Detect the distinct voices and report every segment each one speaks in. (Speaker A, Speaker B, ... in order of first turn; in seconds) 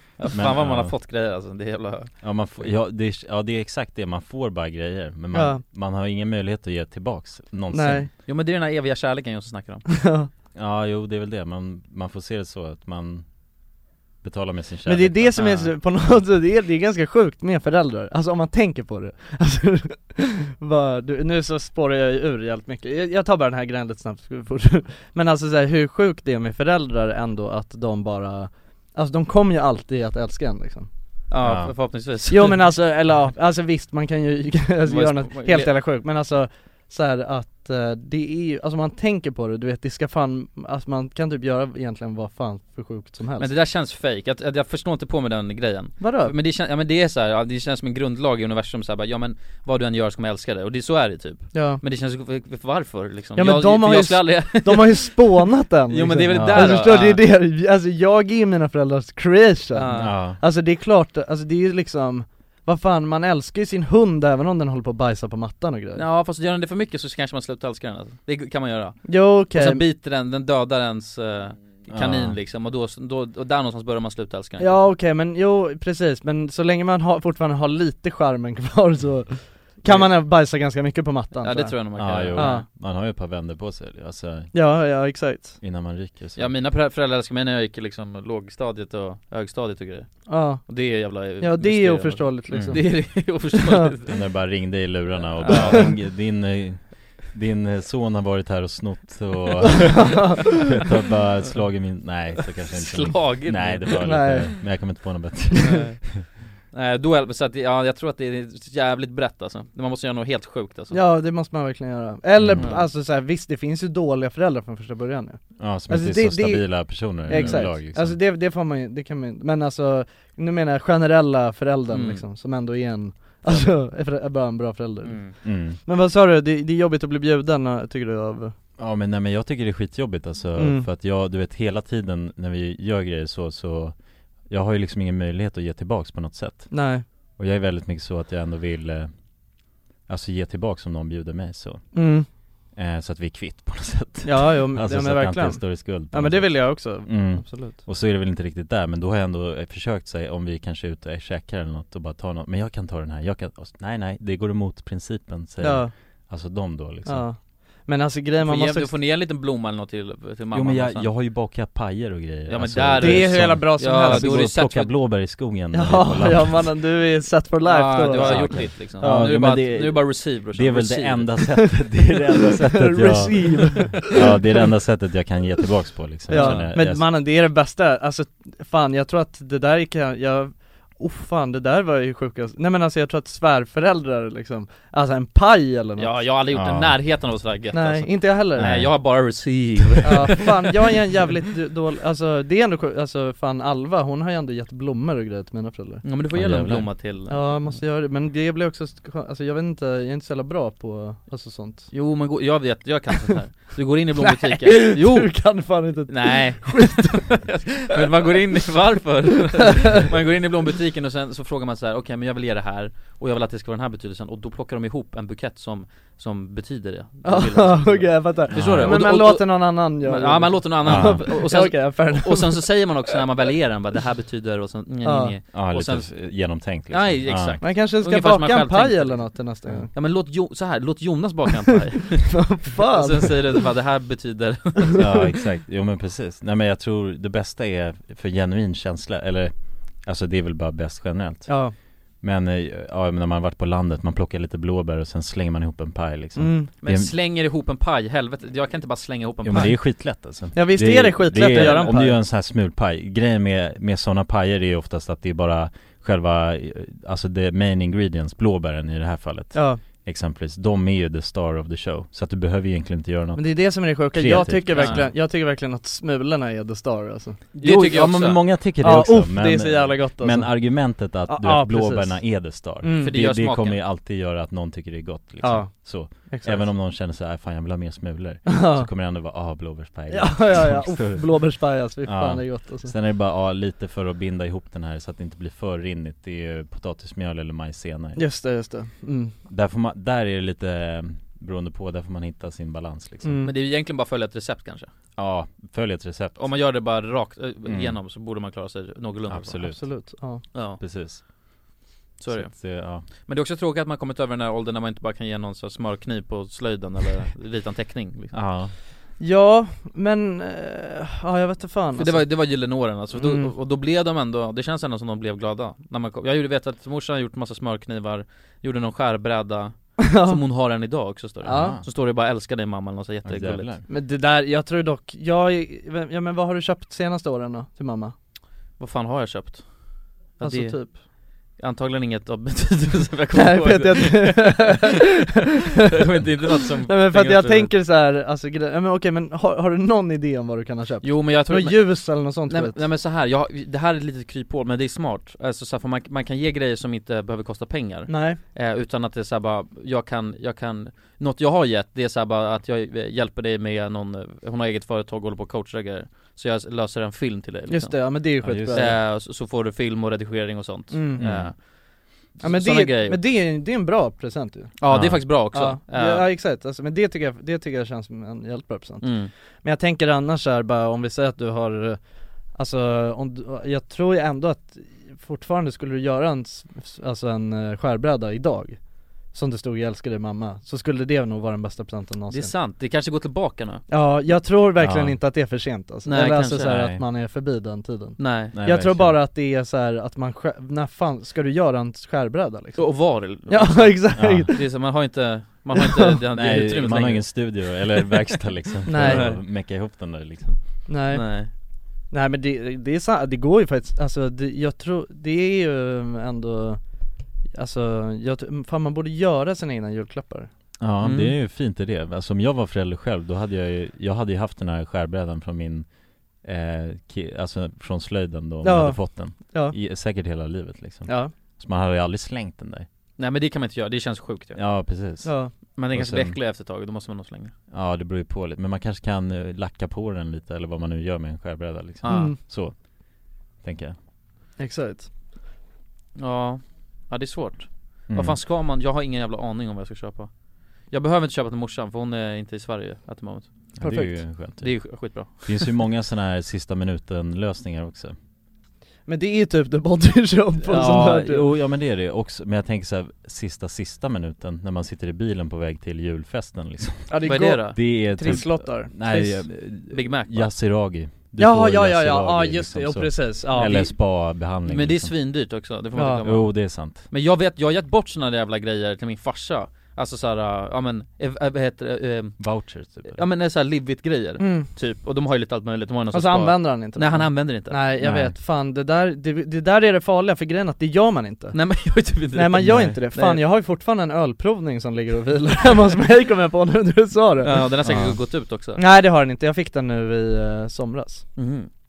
Speaker A: 0.2-2.2, 8.2-9.8, 15.4-15.7, 31.3-32.7, 34.8-35.7, 43.4-57.2, 59.7-60.1, 66.0-74.7, 79.8-80.1, 81.4-82.6, 86.3-94.2, 95.3-96.0, 102.7-104.3, 105.6-111.0, 112.6-112.8, 117.3-117.7, 121.9-122.2, 125.0-125.3, 158.4-161.1, 162.5-164.9, 167.6-171.6, 176.3-176.7, 186.0-190.4, 196.0-197.8, 201.9-235.1, 246.8-249.8, 251.4-251.9, 264.7-265.1, 267.5-268.5, 273.0-273.8, 293.4-294.9, 296.4-299.7, 300.5-300.8, 302.2-308.4, 312.0-323.7, 328.8-334.9, 335.9-337.7, 341.0-363.3, 364.8-366.3, 369.0-369.3, 382.3-383.8, 386.1-386.9, 388.2-388.5, 392.8-397.8, 398.9-399.3, 401.1-401.5, 411.0-411.3, 423.2-424.6, 425.8-427.5, 432.0-432.3, 436.1-443.7, 444.6-445.8, 457.2-458.4, 459.9-460.5, 463.5-463.9, 464.6-472.5, 473.1-477.8, 481.5-483.4, 487.4-488.8, 491.4-491.7
Speaker B: 0.3-0.9, 2.2-8.1, 10.5-13.2, 14.2-15.5, 31.4-31.7, 56.3-56.9, 59.9-60.4, 71.9-72.4, 82.0-84.5, 85.6-86.5, 92.5-92.9, 94.1-106.2, 112.4-112.7, 115.6-118.2, 125.4-125.8, 128.8-139.2, 140.1-142.0, 142.7-157.3, 160.5-166.8, 168.2-177.1, 186.5-187.0, 188.6-189.5, 196.3-196.9, 218.5-219.0, 220.8-221.3, 225.5-227.6, 235.0-241.6, 242.2-247.1, 249.4-265.0, 267.6-281.5, 282.0-288.2, 289.5-293.3, 295.1-296.5, 297.6-298.0, 299.3-299.9, 300.8-301.2, 302.3-303.0, 308.3-308.7, 321.5-321.9, 323.2-323.8, 358.4-359.0, 361.2-361.5, 364.9-365.3, 384.8-385.2, 386.7-387.0, 388.5-389.2, 394.1-394.5, 396.3-400.6, 410.8-415.9, 416.4-422.9, 424.6-426.4, 427.7-432.8, 433.6-433.9, 438.1-438.4, 443.8-448.1, 450.6-465.1, 466.2-467.0, 472.4-473.2, 478.0-478.3, 482.6-483.0, 487.8-488.2
Speaker C: 5.3-5.6, 7.7-8.1, 10.0-10.3, 14.8-30.9, 32.3-43.5, 46.0-46.3, 51.5-51.8, 53.4-66.0, 69.0-69.8, 74.6-82.7, 84.5-85.6, 90.3-93.9, 95.5-95.8, 99.9-100.5, 104.0-104.9, 110.9-128.5, 130.6-130.9, 136.7-137.0, 141.9-142.3, 144.2-147.8, 155.6-155.9, 157.1-158.9, 163.0-164.4, 165.7-169.4, 172.7-174.1, 176.3-186.2, 187.7-188.7, 190.0-196.0, 197.3-201.9, 204.2-207.4, 217.2-222.8, 225.0-225.3, 227.6-229.9, 232.3-233.4, 241.5-241.7, 246.3-246.7, 250.5-252.2, 259.5-259.8, 263.4-267.4, 268.8-273.1, 275.4-276.7, 278.4-278.9, 280.1-282.9, 288.1-289.3, 293.2-293.5, 299.6-300.4, 309.2-313.5, 320.0-320.4, 321.4-321.8, 323.9-328.1, 330.4-331.0, 333.3-335.0, 336.9-342.8, 348.1-348.4, 357.7-359.0, 360.9-361.6, 362.4-372.0, 372.5-382.5, 383.9-394.6, 395.8-396.1, 398.9-399.4, 400.9-401.5, 402.1-406.8, 407.5-410.5, 418.6-419.8, 421.1-421.3, 425.2-425.5, 432.1-432.4, 434.6-435.1, 443.8-444.2, 449.1-451.5, 457.1-459.4, 461.4-463.9, 465.9-466.2, 474.4-474.7, 476.1-481.6, 482.3-487.6, 488.8-491.2